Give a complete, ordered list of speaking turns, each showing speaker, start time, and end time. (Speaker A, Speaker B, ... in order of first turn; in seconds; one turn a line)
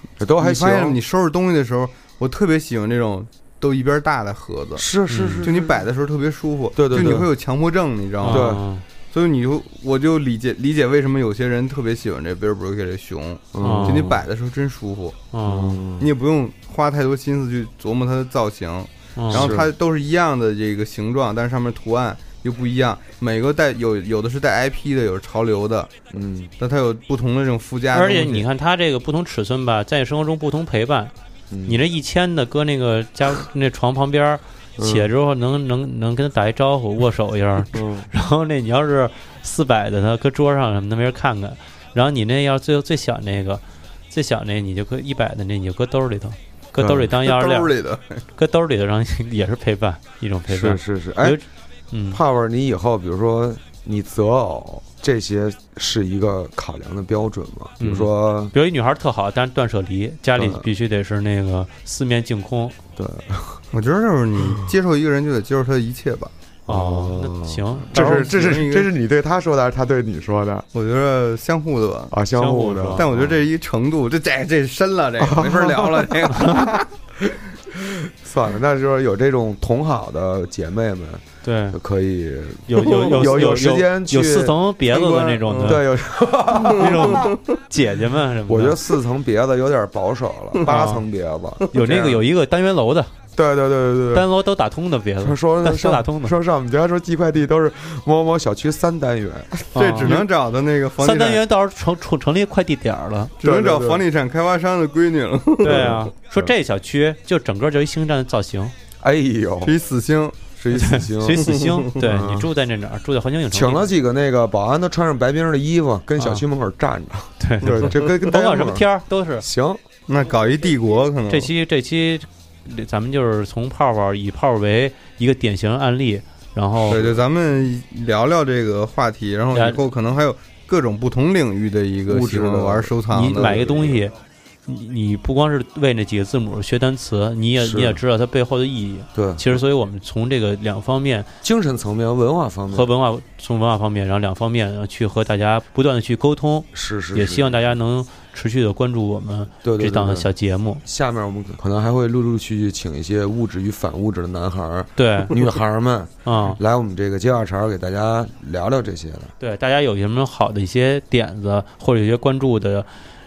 Speaker A: 0.2-1.0
Speaker B: 0.4-4.8
Speaker A: 4.8-5.7
Speaker C: 5.1-5.5
Speaker B: 5.4-8.6
Speaker A: 6.8-7.3
Speaker C: 6.9-7.2
Speaker C: 8.2-8.8
Speaker A: 8.2-8.6
Speaker B: 9.1-15.2
Speaker A: 13.5-14.2
Speaker C: 13.6-14.1
Speaker C: 15.3-15.8
Speaker A: 15.4-16.1
Speaker B: 16.0-25.9
Speaker C: 19.1-19.5
Speaker A: 19.3-19.7
Speaker A: 26.1-26.5
Speaker B: 26.6-28.4
Speaker C: 27.9-31.1
Speaker A: 31.5-31.8
Speaker C: 31.6-47.7
Speaker A: 34.8-35.1
Speaker A: 37.7-38.1
Speaker A: 46.8-47.1
Speaker B: 47.2-48.2
Speaker C: 48.3-52.2
Speaker A: 50.5-51.4
Speaker A: 52.1-58.5
Speaker C: 57.8-62.8
Speaker A: 60.4-60.6
Speaker A: 63.0-63.6
Speaker B: 63.7-66.3
Speaker C: 66.7-68.4
Speaker A: 66.7-70.7
Speaker B: 67.9-68.9
Speaker B: 70.7-72.1
Speaker A: 72.1-73.4
Speaker C: 72.3-73.1
Speaker B: 73.0-76.9
Speaker A: 75.2-76.6
Speaker A: 77.7-87.3
Speaker C: 81.4-81.8
Speaker C: 82.7-85.9
Speaker B: 82.9-83.4
Speaker B: 85.5-85.8
Speaker C: 86.5-88.8
Speaker B: 86.7-87.4
Speaker A: 88.5-92.2
Speaker C: 90.6-91.0
Speaker C: 91.7-93.1
Speaker A: 93.3-94.3
Speaker C: 94.1-96.3
Speaker A: 95.2-100.2
Speaker C: 99.7-100.2
Speaker B: 99.7-101.4
Speaker C: 101.0-103.3
Speaker B: 103.4-106.1
Speaker A: 103.4-104.0
Speaker C: 105.6-108.7
Speaker A: 105.6-106.5
Speaker A: 109.0-109.7
Speaker B: 109.6-110.5
Speaker A: 110.6-112.5
Speaker C: 110.7-113.9
Speaker B: 111.3-112.1
Speaker A: 113.5-118.8
Speaker C: 116.2-116.4
Speaker C: 117.4-119.5
Speaker B: 117.7-118.0
Speaker A: 119.4-119.8
Speaker B: 120.1-121.5
Speaker C: 121.3-127.0
Speaker B: 126.8-134.1
Speaker A: 126.9-127.1
Speaker C: 129.5-129.8
Speaker A: 132.1-133.5
Speaker C: 133.1-134.1
Speaker C: 134.7-141.3
Speaker A: 137.6-138.0
Speaker A: 139.1-139.6
Speaker A: 141.4-142.9
Speaker C: 142.7-150.8
Speaker A: 146.7-147.7
Speaker A: 149.6-150.3
Speaker A: 150.8-159.3
Speaker C: 155.0-155.4
Speaker C: 156.2-156.6
Speaker C: 159.4-162.9